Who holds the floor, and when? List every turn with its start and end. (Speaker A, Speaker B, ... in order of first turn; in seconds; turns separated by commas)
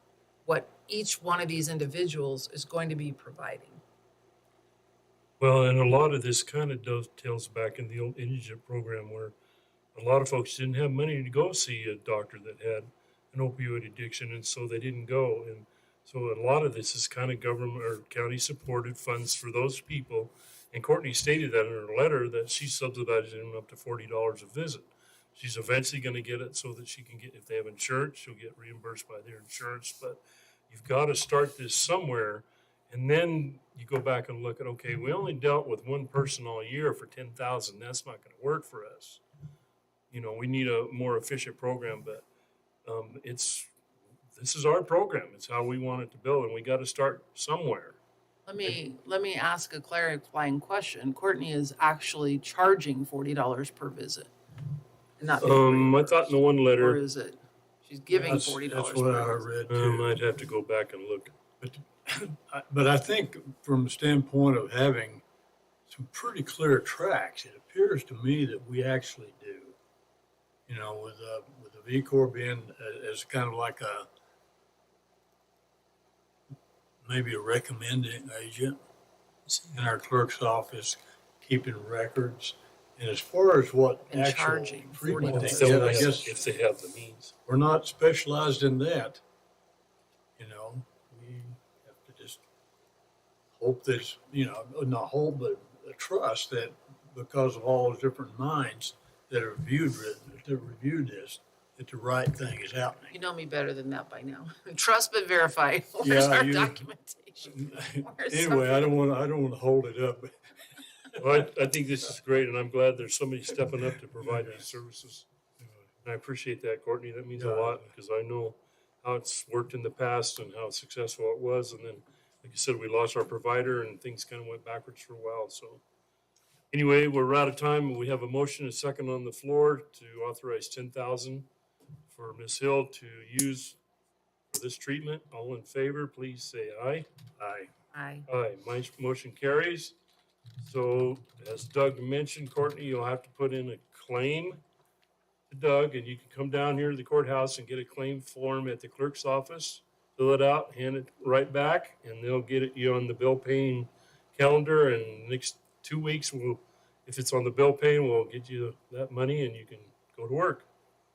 Speaker A: 0.4-3.8, Speaker B: 5.4-9.3, Speaker B: 9.9-39.2, Speaker B: 40.1-42.2, Speaker B: 42.9-43.7, Speaker B: 44.4-48.0, Speaker A: 48.5-54.3, Speaker A: 55.2-59.5, Speaker B: 55.4-57.0, Speaker C: 58.1-60.1, Speaker B: 59.7-61.3, Speaker C: 61.6-65.2, Speaker C: 65.9-69.8, Speaker C: 70.7-74.1, Speaker C: 77.0-78.8, Speaker B: 79.5-79.8, Speaker C: 79.7-86.3, Speaker A: 84.1-86.2, Speaker B: 85.2-87.3, Speaker C: 87.5-89.2, Speaker C: 90.4-92.4, Speaker C: 93.6-103.1, Speaker A: 103.1-108.9, Speaker C: 106.0-106.8, Speaker C: 107.4-110.3, Speaker B: 111.2-115.2, Speaker C: 114.2-114.6, Speaker B: 116.0-125.8, Speaker C: 117.3-117.9, Speaker B: 126.7-131.4, Speaker B: 132.1-133.8, Speaker B: 134.5-137.1, Speaker C: 137.4-137.7, Speaker A: 137.9-138.3, Speaker B: 138.3-139.9, Speaker B: 140.6-144.6, Speaker B: 145.5-160.7